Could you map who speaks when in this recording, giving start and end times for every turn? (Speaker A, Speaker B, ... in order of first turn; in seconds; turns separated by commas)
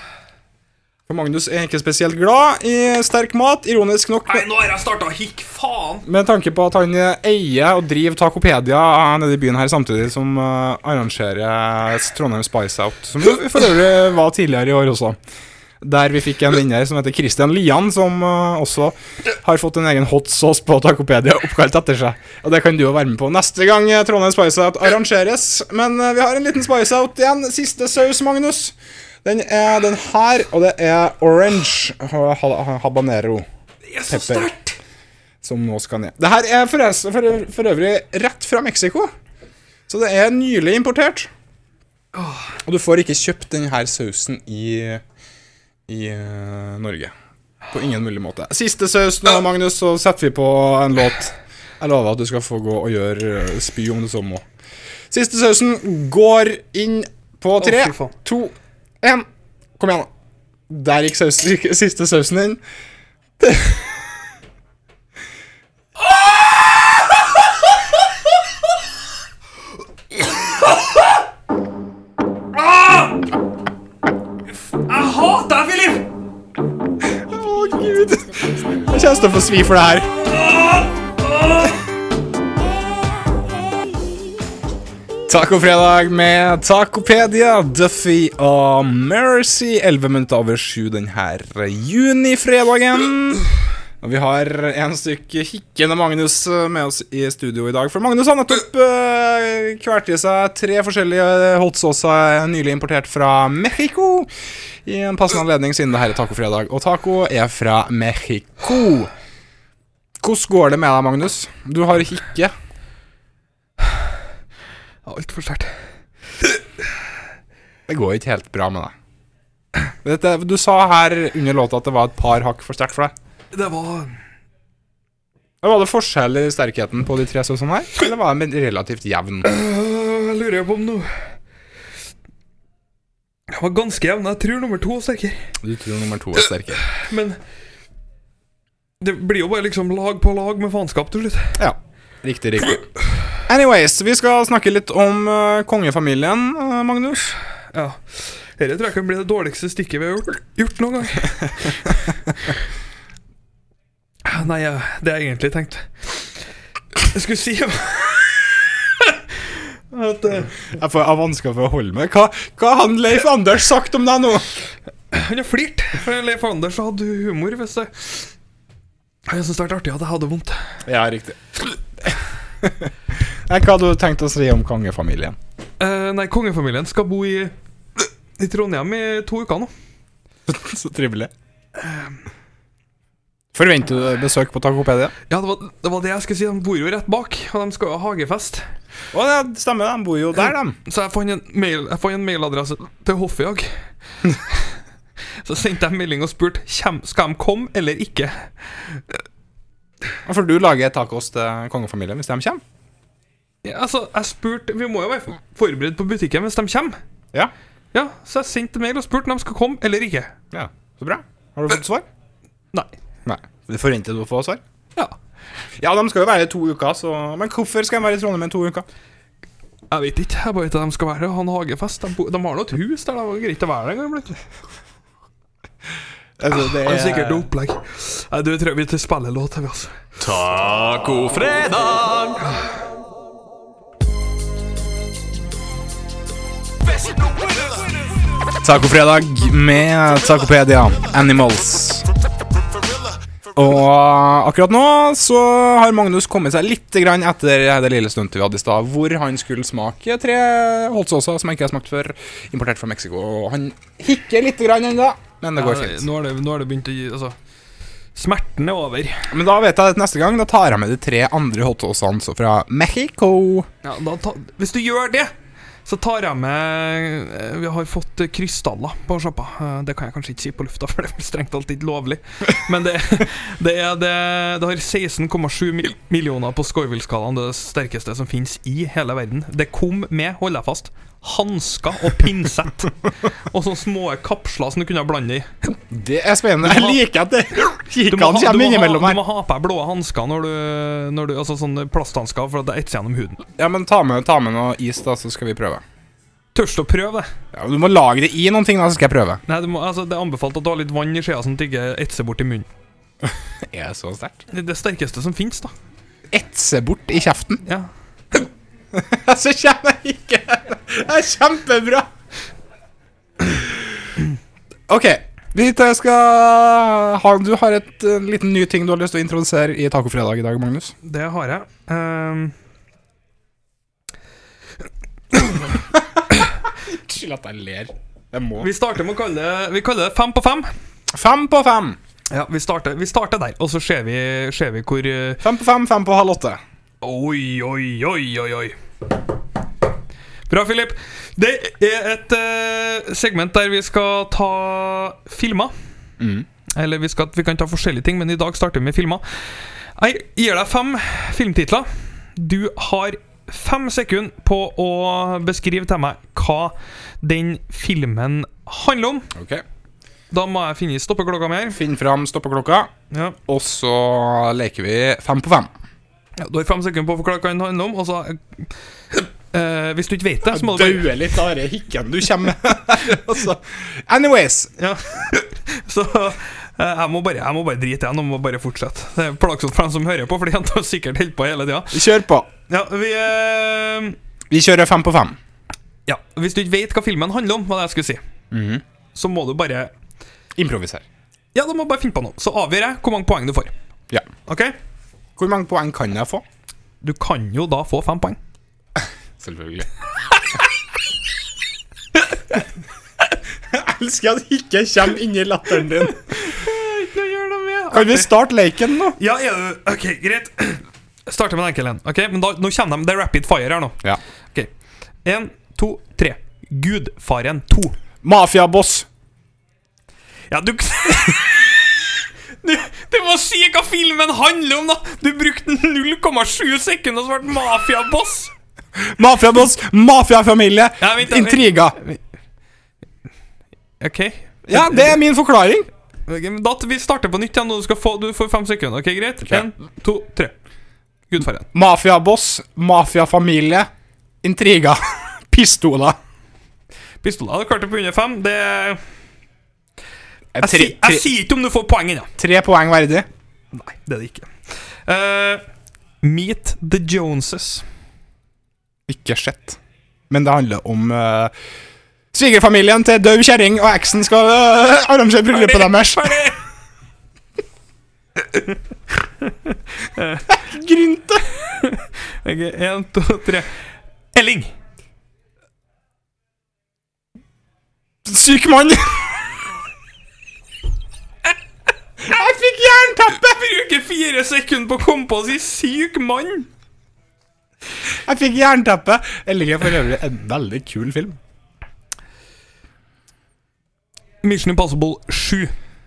Speaker A: 1.1-4.5, Speaker B: 4.3-6.0, Speaker A: 6.0-15.2, Speaker A: 15.8-33.4, Speaker B: 33.9-34.8, Speaker A: 34.1-34.5, Speaker A: 35.4-39.1, Speaker A: 39.9-41.3, Speaker B: 42.1-42.5, Speaker A: 42.6-45.0, Speaker A: 45.9-47.1, Speaker A: 47.7-54.4, Speaker A: 55.1-59.3, Speaker B: 57.6-58.1, Speaker A: 59.8-60.1, Speaker A: 60.7-62.6, Speaker A: 63.4-64.0, Speaker B: 66.1-67.1, Speaker B: 70.4-70.8, Speaker B: 72.5-73.2, Speaker B: 74.7-76.1, Speaker A: 77.0-80.1, Speaker B: 80.2-81.8, Speaker A: 85.3-93.5, Speaker A: 94.0-104.3, Speaker A: 104.8-109.1, Speaker A: 110.2-112.5, Speaker B: 115.0-115.8, Speaker A: 117.9-118.9, Speaker A: 120.0-123.1, Speaker B: 123.5-124.2, Speaker A: 125.6-129.5, Speaker B: 129.4-131.1, Speaker B: 133.5-135.5, Speaker A: 135.6-136.8, Speaker B: 136.9-137.4, Speaker B: 139.0-141.6, Speaker A: 141.6-142.8, Speaker A: 143.5-147.3, Speaker B: 147.7-152.5, Speaker B: 154.2-156.4, Speaker B: 157.0-160.6, Speaker A: 160.6-164.5, Speaker B: 165.1-168.3, Speaker B: 169.3-170.8, Speaker A: 170.8-175.4, Speaker B: 175.8-179.7, Speaker A: 180.5-181.3, Speaker B: 181.8-182.2, Speaker A: 183.5-185.1, Speaker B: 185.3-188.6, Speaker A: 189.1-190.8, Speaker B: 190.8-194.7, Speaker B: 195.4-199.2, Speaker A: 200.2-202.6, Speaker B: 203.6-207.0, Speaker B: 207.9-210.3, Speaker A: 210.5-212.1, Speaker A: 213.2-214.6, Speaker A: 215.8-218.8, Speaker B: 219.9-224.4, Speaker A: 226.4-227.5, Speaker B: 226.5-230.0, Speaker C: 230.2-232.4, Speaker A: 238.6-242.1, Speaker A: 243.5-256.1, Speaker B: 255.6-257.4, Speaker B: 258.1-259.3, Speaker A: 259.3-263.7, Speaker B: 263.8-265.3, Speaker B: 265.8-285.5, Speaker A: 285.7-289.2, Speaker B: 286.6-287.0, Speaker B: 288.1-293.4, Speaker A: 293.6-295.8, Speaker B: 296.5-297.3, Speaker A: 297.5-299.4, Speaker B: 299.5-302.7, Speaker A: 303.2-304.4, Speaker B: 304.5-305.7, Speaker A: 306.3-307.6, Speaker A: 308.9-312.1, Speaker A: 313.4-313.8, Speaker A: 314.9-320.9, Speaker B: 321.0-322.5, Speaker A: 325.5-328.7, Speaker B: 328.6-330.7, Speaker A: 331.1-332.0, Speaker B: 332.3-335.4, Speaker A: 335.4-336.6, Speaker B: 337.0-338.8, Speaker B: 340.5-345.7, Speaker A: 346.2-346.4, Speaker B: 346.7-349.2, Speaker B: 349.9-359.3, Speaker A: 359.3-359.6, Speaker B: 360.3-361.8, Speaker A: 361.7-362.9, Speaker B: 363.1-363.4, Speaker A: 363.5-365.7, Speaker B: 366.4-371.1, Speaker A: 370.5-374.7, Speaker B: 374.8-382.1, Speaker A: 381.9-382.5, Speaker B: 382.7-384.2, Speaker A: 384.5-385.4, Speaker B: 386.1-388.2, Speaker A: 388.5-388.8, Speaker B: 389.1-389.9, Speaker A: 390.6-391.0, Speaker B: 391.5-393.7, Speaker B: 394.5-394.7, Speaker A: 395.4-396.4, Speaker B: 397.0-398.4, Speaker A: 399.0-399.9, Speaker A: 403.7-406.4, Speaker B: 406.2-408.3, Speaker A: 407.9-409.2, Speaker B: 409.2-414.0, Speaker B: 415.2-417.9, Speaker A: 418.2-419.1, Speaker B: 420.5-421.9, Speaker B: 422.6-428.5, Speaker A: 429.0-432.0, Speaker B: 431.0-432.2, Speaker B: 434.0-435.2, Speaker A: 434.7-435.9, Speaker B: 436.3-440.5, Speaker B: 441.3-441.7, Speaker A: 441.7-443.9, Speaker A: 444.4-446.2, Speaker B: 447.2-449.0, Speaker A: 450.5-451.3, Speaker B: 450.6-452.3, Speaker A: 452.4-453.3, Speaker B: 453.7-454.5, Speaker B: 455.1-455.6, Speaker B: 456.2-457.8, Speaker A: 459.1-459.8, Speaker A: 460.3-461.5, Speaker A: 462.3-466.5, Speaker B: 465.5-466.6, Speaker B: 468.5-468.7, Speaker B: 469.4-470.5, Speaker A: 470.5-471.5, Speaker B: 471.7-473.7, Speaker B: 474.3-474.7, Speaker A: 478.2-479.5, Speaker A: 482.2-483.5, Speaker B: 483.4-486.7, Speaker A: 488.2-491.4, Speaker B: 494.4-495.7